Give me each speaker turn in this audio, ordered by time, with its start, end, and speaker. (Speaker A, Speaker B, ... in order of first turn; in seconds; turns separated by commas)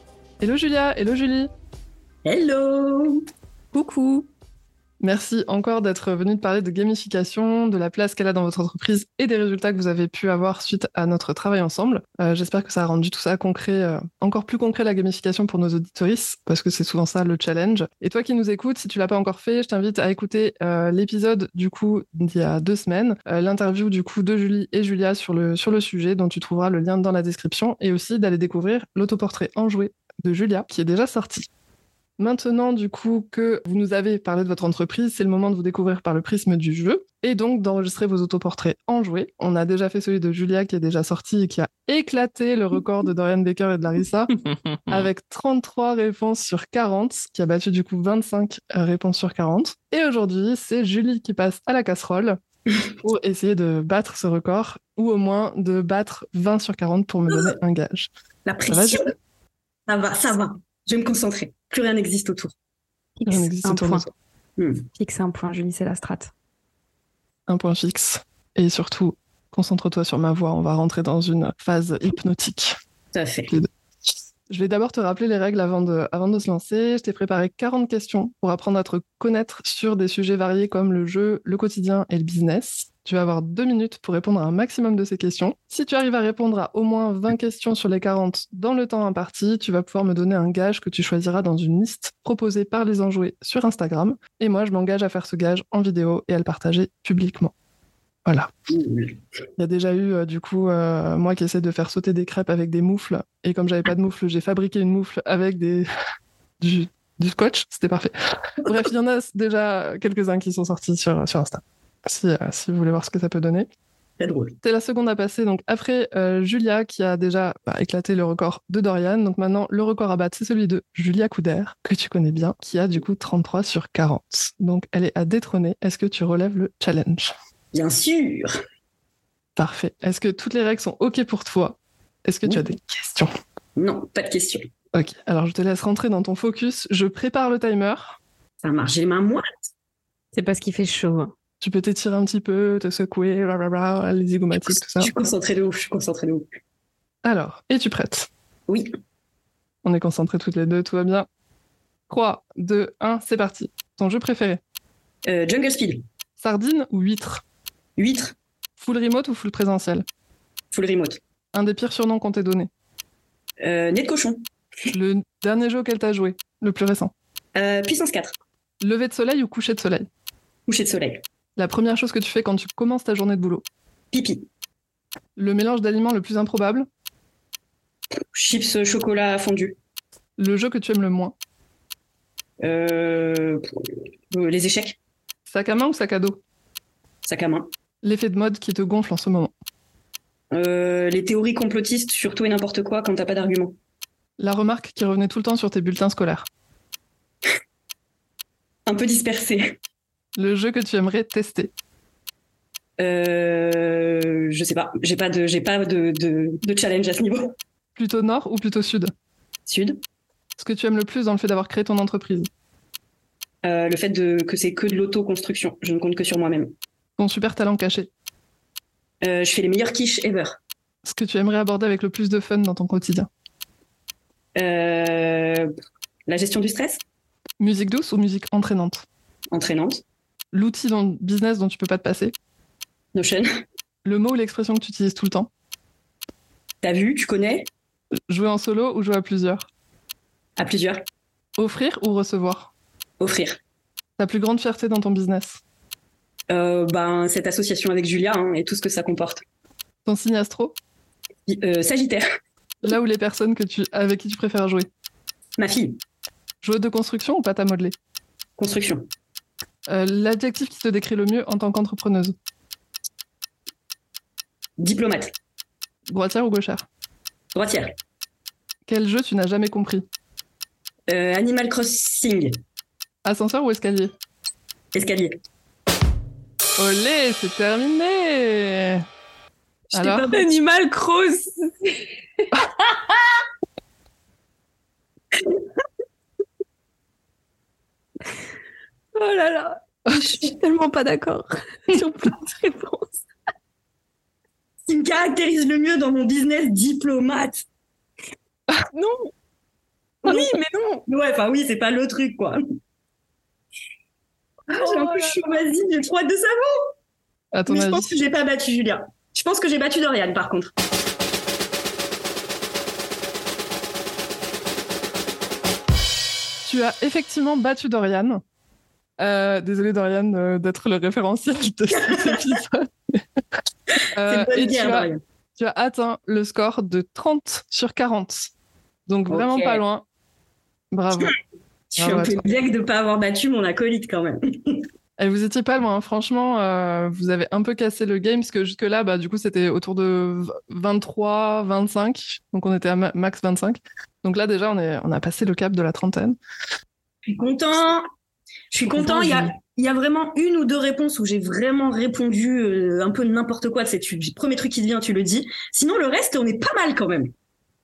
Speaker A: 0.4-1.5, Speaker B: 2.2-3.2, Speaker C: 3.7-4.3, Speaker A: 5.0-31.5, Speaker A: 32.2-44.3, Speaker A: 44.9-52.4, Speaker A: 53.0-58.1, Speaker B: 58.5-59.1, Speaker A: 58.7-59.1, Speaker B: 59.9-62.5, Speaker C: 63.2-64.1, Speaker A: 63.3-64.1, Speaker B: 64.6-64.9, Speaker C: 65.0-66.3, Speaker A: 67.5-72.8, Speaker B: 73.1-73.6, Speaker A: 74.5-97.5, Speaker A: 98.3-98.5, Speaker B: 98.7-99.2, Speaker A: 99.6-105.9, Speaker A: 106.6-113.7, Speaker B: 114.2-114.6, Speaker A: 114.6-127.3, Speaker B: 127.7-128.5, Speaker A: 129.6-133.3, Speaker B: 133.8-134.7, Speaker A: 134.9-138.2, Speaker B: 138.6-139.4, Speaker C: 140.3-141.3, Speaker A: 141.6-145.1, Speaker B: 144.7-146.5, Speaker A: 147.2-148.3, Speaker A: 149.8-151.3, Speaker A: 152.1-154.6, Speaker B: 155.3-156.0, Speaker A: 156.4-157.4, Speaker B: 158.0-158.3, Speaker A: 158.8-160.1, Speaker B: 160.7-161.2, Speaker A: 161.5-162.7, Speaker B: 163.6-164.4, Speaker A: 164.9-167.1, Speaker B: 167.6-168.3, Speaker A: 168.8-170.1, Speaker B: 170.7-171.2, Speaker A: 171.6-173.7, Speaker B: 174.1-174.5, Speaker A: 175.4-176.9, Speaker B: 178.3-179.8, Speaker A: 180.4-181.4, Speaker B: 182.6-185.0, Speaker A: 185.5-186.4, Speaker B: 187.2-187.7, Speaker A: 188.0-189.5, Speaker B: 190.5-193.8, Speaker A: 194.4-196.5, Speaker B: 198.9-199.8, Speaker A: 200.4-201.7, Speaker B: 203.0-207.5, Speaker A: 208.0-209.1, Speaker B: 209.7-210.0, Speaker A: 210.6-212.5, Speaker B: 213.6-216.7, Speaker A: 217.2-218.1, Speaker B: 219.2-220.6, Speaker A: 221.1-223.3, Speaker B: 224.6-225.7, Speaker B: 226.3-227.0, Speaker A: 227.6-229.1, Speaker B: 229.5-230.0, Speaker A: 230.5-232.3, Speaker B: 233.1-233.5, Speaker A: 234.0-235.5, Speaker B: 236.8-237.7, Speaker A: 238.3-239.7, Speaker B: 240.6-241.0, Speaker A: 241.6-242.7, Speaker B: 243.2-243.6, Speaker A: 244.2-245.6, Speaker B: 246.5-249.4, Speaker A: 250.1-250.8, Speaker B: 251.5-252.2, Speaker A: 252.8-254.9, Speaker B: 255.6-256.0, Speaker A: 256.6-257.9, Speaker B: 258.6-259.1, Speaker A: 259.9-262.4, Speaker B: 264.8-265.4, Speaker A: 266.1-266.9, Speaker B: 267.6-267.9, Speaker A: 268.9-270.0, Speaker B: 271.1-272.6, Speaker A: 273.2-274.1, Speaker B: 274.9-275.4, Speaker A: 276.8-279.0, Speaker A: 279.9-280.3, Speaker B: 279.9-280.4, Speaker C: 280.3-282.0, Speaker C: 289.1-293.2, Speaker B: 294.9-297.7, Speaker C: 298.9-299.3, Speaker C: 300.2-301.0, Speaker B: 301.1-302.6, Speaker B: 304.7-306.8, Speaker C: 304.8-305.4, Speaker A: 307.5-308.1, Speaker B: 307.7-310.7, Speaker A: 316.6-318.4, Speaker A: 319.2-323.2, Speaker B: 321.9-322.4, Speaker A: 324.1-328.5, Speaker B: 324.2-325.2, Speaker A: 329.1-330.0, Speaker B: 329.3-329.8, Speaker A: 330.9-331.4, Speaker B: 331.9-334.9, Speaker A: 332.0-332.4, Speaker A: 335.2-346.4, Speaker B: 347.3-348.0, Speaker B: 348.7-357.3, Speaker A: 348.9-349.5